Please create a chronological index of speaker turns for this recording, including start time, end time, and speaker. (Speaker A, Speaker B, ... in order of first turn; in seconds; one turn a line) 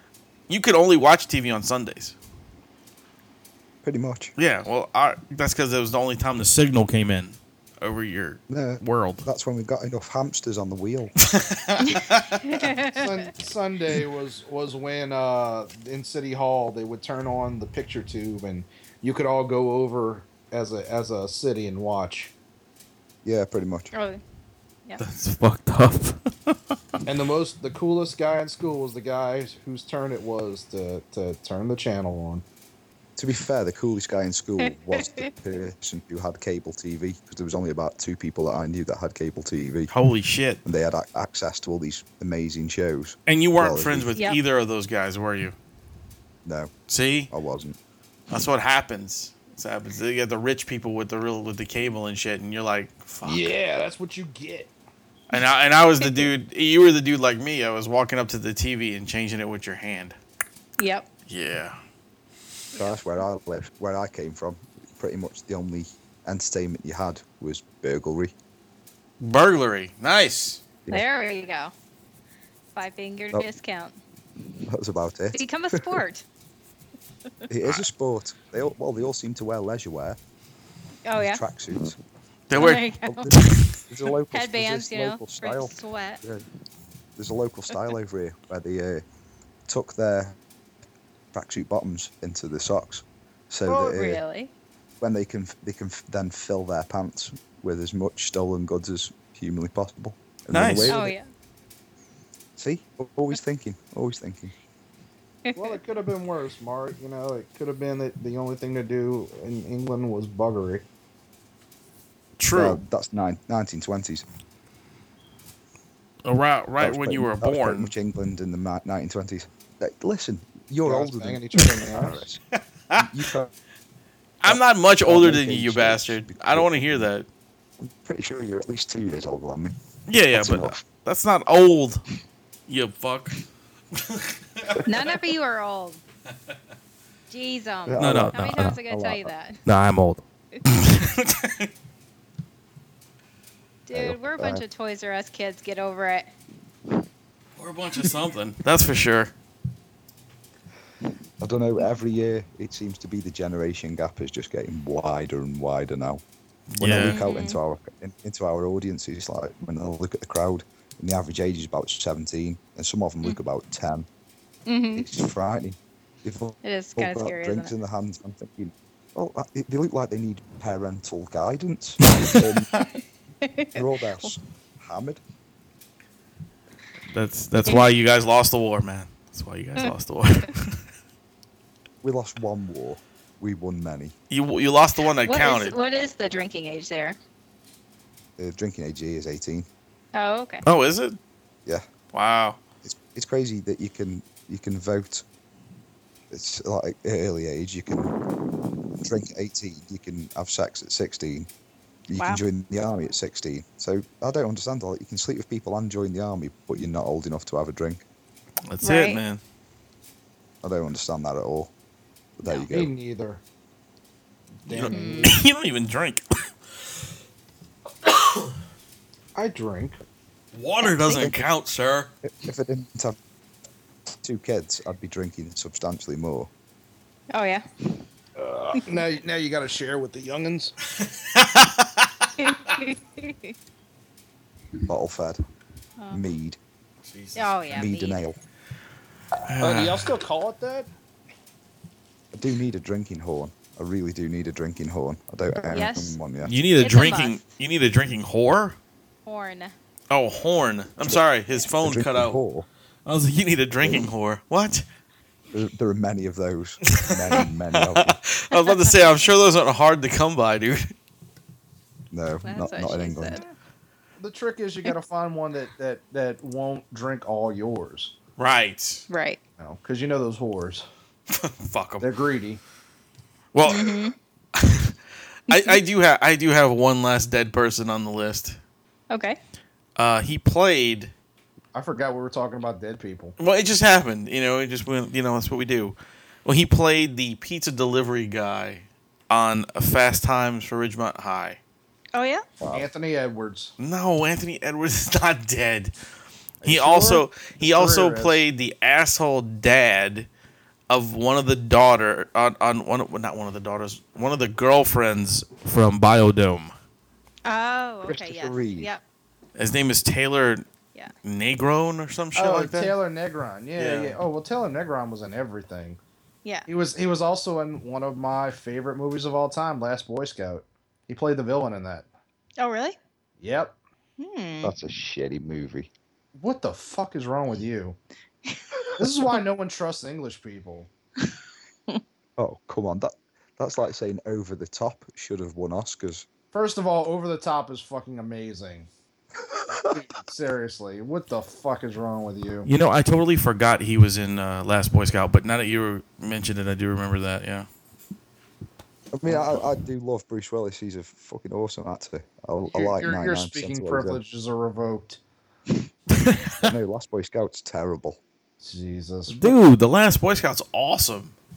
Speaker A: 0.5-2.1
Speaker B: 3.8-4.3
Speaker A: 4.4-9.2
Speaker B: 8.5-11.1
Speaker A: 11.2-12.4
Speaker C: 12.5-13.0
Speaker D: 12.9-22.3
Speaker B: 23.2-23.9
Speaker C: 23.9-24.2
Speaker A: 25.0-26.6
Speaker D: 27.1-32.5
Speaker B: 33.2-39.9
Speaker C: 34.6-35.3
Speaker A: 39.9-40.6
Speaker B: 40.6-44.2
Speaker A: 43.3-45.5
Speaker B: 46.4-46.7
Speaker A: 46.9-47.3
Speaker B: 47.3-47.8
Speaker A: 48.3-53.5
Speaker D: 53.2-54.7
Speaker A: 55.3-60.2
Speaker C: 56.0-56.3
Speaker C: 60.8-61.1
Speaker A: 61.3-61.8
Speaker B: 62.8-68.3
Speaker A: 69.2-70.6
Speaker C: 70.9-71.7
Speaker C: 72.8-74.0
Speaker B: 74.7-76.0
Speaker C: 75.3-76.2
Speaker B: 77.5-80.2
Speaker C: 81.0-81.4
Speaker B: 81.2-82.0
Speaker A: 82.5-83.7
Speaker C: 82.5-83.3
Speaker B: 83.0-86.5
Speaker C: 84.3-86.2
Speaker B: 87.2-89.0
Speaker B: 89.7-90.4
Speaker B: 91.3-94.2
Speaker C: 93.7-94.5
Speaker B: 95.0-101.1
Speaker A: 100.5-101.0
Speaker C: 100.9-101.3
Speaker B: 102.6-104.5
Speaker C: 105.5-105.8
Speaker D: 105.5-110.8
Speaker A: 112.4-112.8
Speaker B: 112.5-114.2
Speaker A: 116.2-117.9
Speaker B: 116.8-122.4
Speaker D: 120.8-122.2
Speaker B: 123.0-123.5
Speaker A: 124.4-127.2
Speaker B: 124.5-127.1
Speaker B: 127.8-129.8
Speaker A: 130.1-132.0
Speaker B: 130.3-130.8
Speaker A: 132.7-133.4
Speaker A: 134.0-134.8
Speaker C: 134.8-136.0
Speaker C: 137.3-139.6
Speaker B: 137.9-139.3
Speaker A: 138.0-138.8
Speaker A: 139.7-141.7
Speaker C: 143.9-146.3
Speaker B: 143.9-144.6
Speaker A: 147.6-149.3
Speaker B: 151.4-156.2
Speaker A: 156.7-157.2
Speaker B: 156.8-164.1
Speaker C: 157.0-157.6
Speaker C: 164.7-165.1
Speaker B: 164.9-172.7
Speaker C: 166.6-167.7
Speaker C: 173.5-174.4
Speaker B: 173.7-175.2
Speaker A: 177.1-180.8
Speaker B: 182.0-184.1
Speaker A: 184.3-185.8
Speaker C: 185.2-187.2
Speaker B: 188.4-189.7
Speaker C: 190.1-190.6
Speaker A: 190.6-191.2
Speaker A: 192.1-192.6
Speaker B: 192.8-195.2
Speaker B: 196.3-198.1
Speaker B: 199.0-201.5
Speaker B: 202.1-208.0
Speaker C: 202.2-202.4
Speaker A: 208.7-209.4
Speaker C: 208.8-209.2
Speaker B: 210.6-211.7
Speaker B: 212.4-212.9
Speaker D: 212.7-213.4
Speaker D: 214.6-215.4
Speaker A: 214.7-216.2
Speaker C: 214.9-215.4
Speaker A: 218.1-218.5
Speaker D: 219.3-220.0
Speaker A: 220.5-222.1
Speaker B: 221.0-221.4
Speaker B: 222.2-223.2
Speaker B: 224.2-226.5
Speaker C: 227.3-227.6
Speaker D: 228.4-230.8
Speaker A: 231.0-232.1
Speaker C: 232.4-233.5
Speaker B: 234.9-235.4
Speaker C: 236.0-236.2
Speaker B: 236.1-236.6
Speaker A: 237.0-237.6
Speaker C: 237.3-238.2
Speaker B: 237.7-238.4
Speaker A: 239.5-240.1
Speaker D: 239.5-240.9
Speaker B: 242.3-246.5
Speaker C: 245.7-246.2
Speaker A: 246.4-248.8
Speaker C: 246.8-247.4
Speaker C: 249.2-249.7
Speaker A: 250.1-252.4
Speaker B: 251.8-252.7
Speaker A: 253.1-254.8
Speaker B: 253.8-254.1
Speaker B: 255.5-258.2
Speaker A: 256.9-260.9
Speaker C: 258.5-258.9
Speaker B: 262.1-263.4
Speaker C: 262.4-263.5
Speaker D: 264.2-268.1
Speaker A: 268.4-269.0
Speaker C: 269.1-269.4
Speaker D: 269.6-270.9
Speaker A: 271.3-272.1
Speaker D: 272.0-272.6
Speaker A: 273.5-274.0
Speaker C: 273.6-274.1
Speaker A: 274.6-274.9
Speaker A: 275.5-278.6
Speaker C: 275.5-275.8
Speaker C: 279.1-279.4
Speaker A: 280.0-281.1
Speaker D: 281.7-283.4
Speaker A: 283.4-291.6
Speaker C: 292.1-292.4
Speaker B: 292.6-292.9
Speaker D: 292.7-293.7
Speaker A: 293.8-295.9
Speaker D: 296.6-298.4
Speaker A: 296.6-300.3
Speaker A: 300.9-306.7
Speaker C: 307.4-309.0
Speaker B: 308.0-308.9
Speaker A: 309.6-310.6
Speaker A: 311.2-312.9
Speaker D: 312.4-316.0
Speaker A: 313.8-314.2
Speaker D: 316.7-322.1
Speaker C: 322.6-323.0
Speaker D: 323.4-323.8
Speaker C: 324.2-324.7
Speaker B: 324.6-325.9
Speaker D: 326.4-328.0
Speaker D: 329.0-330.9
Speaker B: 332.4-336.2
Speaker D: 336.5-338.9
Speaker D: 339.9-342.7
Speaker A: 342.6-347.7
Speaker B: 349.1-354.2
Speaker D: 352.7-355.2
Speaker A: 356.1-356.7
Speaker B: 356.6-358.2
Speaker D: 358.6-359.6
Speaker A: 359.3-361.3